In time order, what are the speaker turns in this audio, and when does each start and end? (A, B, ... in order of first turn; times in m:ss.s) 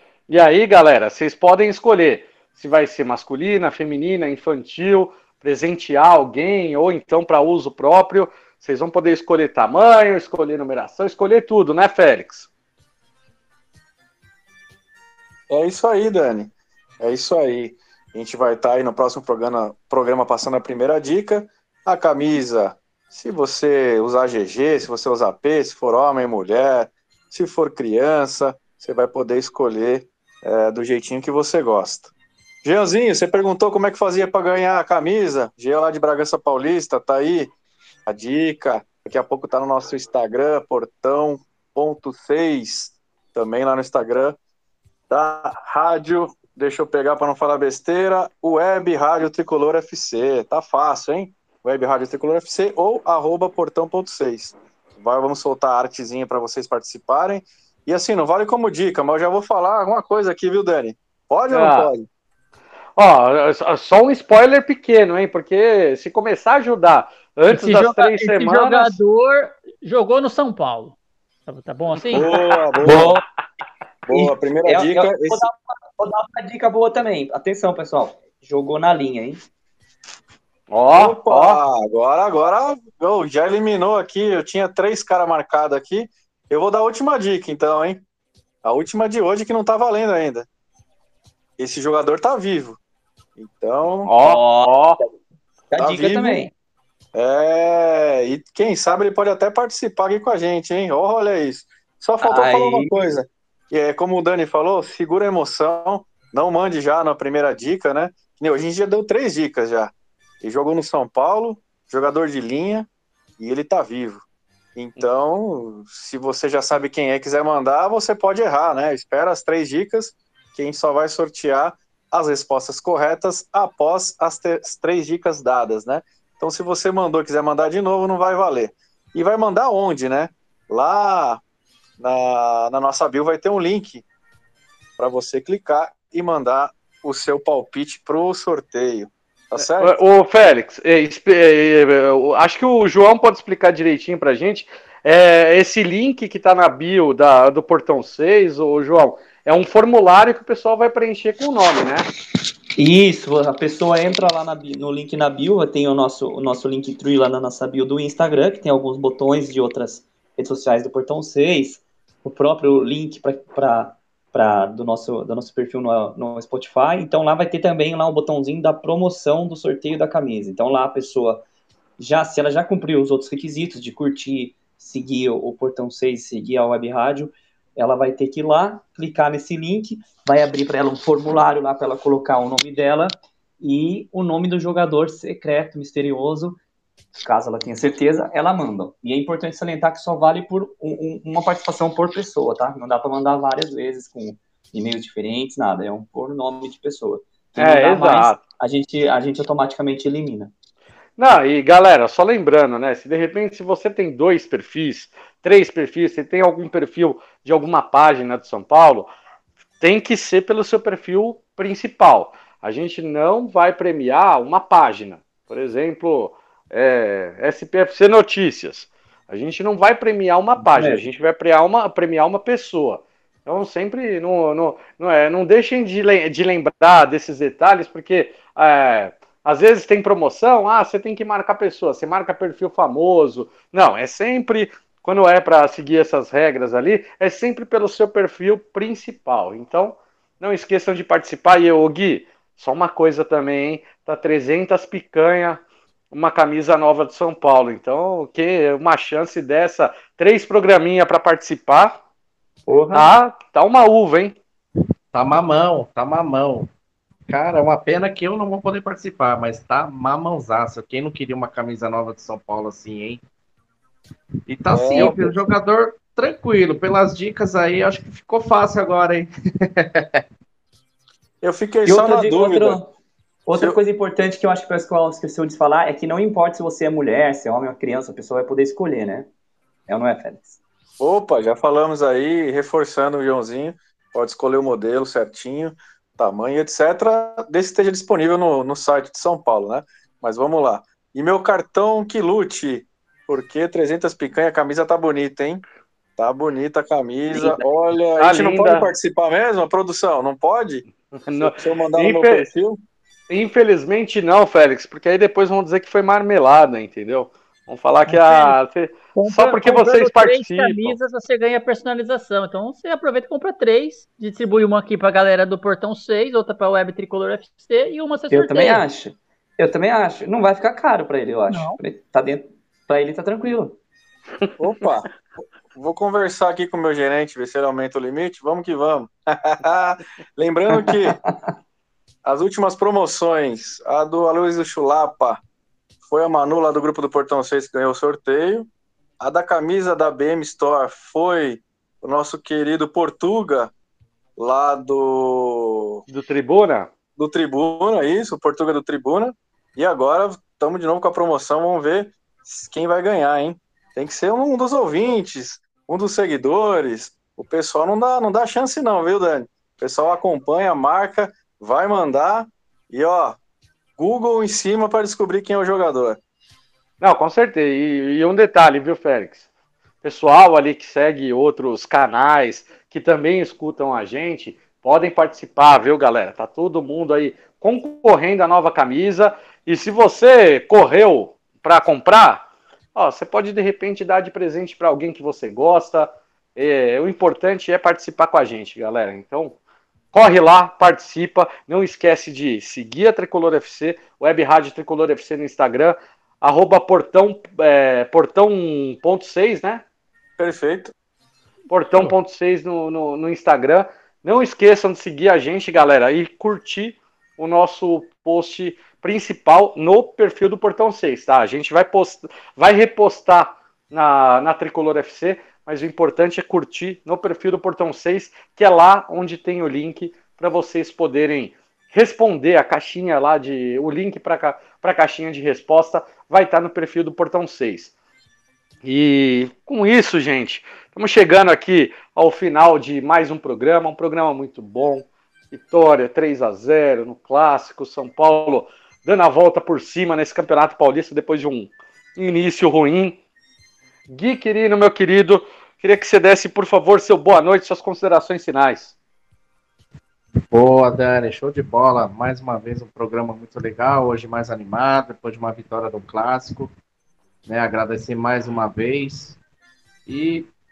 0:00.3-0:12.5 A
0:15.5-0:32.1 B
0:32.6-0:37.5 B
0:38.0-0:44.4 B
0:45.1-1:02.0 B
1:01.5-1:01.9 A
1:03.0-1:09.0 A
1:07.5-1:11.0 C
1:11.5-1:12.6 C
1:12.1-1:13.1 B
1:12.3-1:13.1 A
1:12.8-1:13.2 D
1:14.0-1:15.4 B
1:14.1-1:19.4 D
1:20.7-1:21.6 A
1:20.9-1:28.0 B
1:28.6-1:30.4 B
1:31.6-1:32.8 B
1:33.4-1:34.1 B
1:34.0-1:35.0 A
1:34.2-1:35.1 D
1:35.7-1:36.5 D
1:35.8-1:36.5 B
1:37.1-1:54.2 B
1:42.2-1:43.0 D
1:54.7-2:11.4 B
2:12.0-2:14.0 B
2:15.0-2:20.0 B
2:19.6-2:32.0 A
2:32.8-2:51.4 D
2:52.0-3:06.6 D
3:07.1-3:20.5 D
3:17.6-3:18.4 A
3:21.2-3:29.1 A
3:29.8-4:05.6 A
3:40.6-3:41.0 D
4:06.1-4:12.0 A
4:12.7-4:13.1 D
4:12.9-4:14.4 A
4:15.1-4:16.7 E
4:17.3-4:23.2 E
4:24.5-4:30.2 E
4:24.7-4:25.4 B
4:31.4-4:32.8 B
4:31.8-4:32.9 D
4:33.4-4:39.3 D
4:39.9-4:40.6 D
4:41.0-4:55.6 B
4:56.2-5:00.8 B
4:57.3-4:57.6 D
4:58.2-4:58.9 A
5:01.2-5:02.5 A
5:01.4-5:02.8 B
5:03.3-5:11.0 A
5:08.1-5:08.6 C
5:09.2-5:18.8 C
5:18.3-5:23.8 D
5:21.5-5:21.8 C
5:24.6-5:31.2 B
5:30.7-5:31.4 D
5:32.2-5:35.4 B
5:36.0-5:38.7 B
5:39.2-5:43.7 B
5:44.4-5:46.0 B
5:46.1-5:46.9 A
5:47.2-6:03.4 B
6:04.0-6:06.2 B
6:07.0-6:09.4 A
6:10.0-6:29.6 A
6:30.1-6:39.8 A
6:40.4-6:40.9 B
6:41.7-7:07.9 A
7:08.8-7:23.2 A
7:24.1-7:28.9 A
7:30.5-7:36.7 E
7:37.4-7:39.4 E
7:40.1-7:40.5 E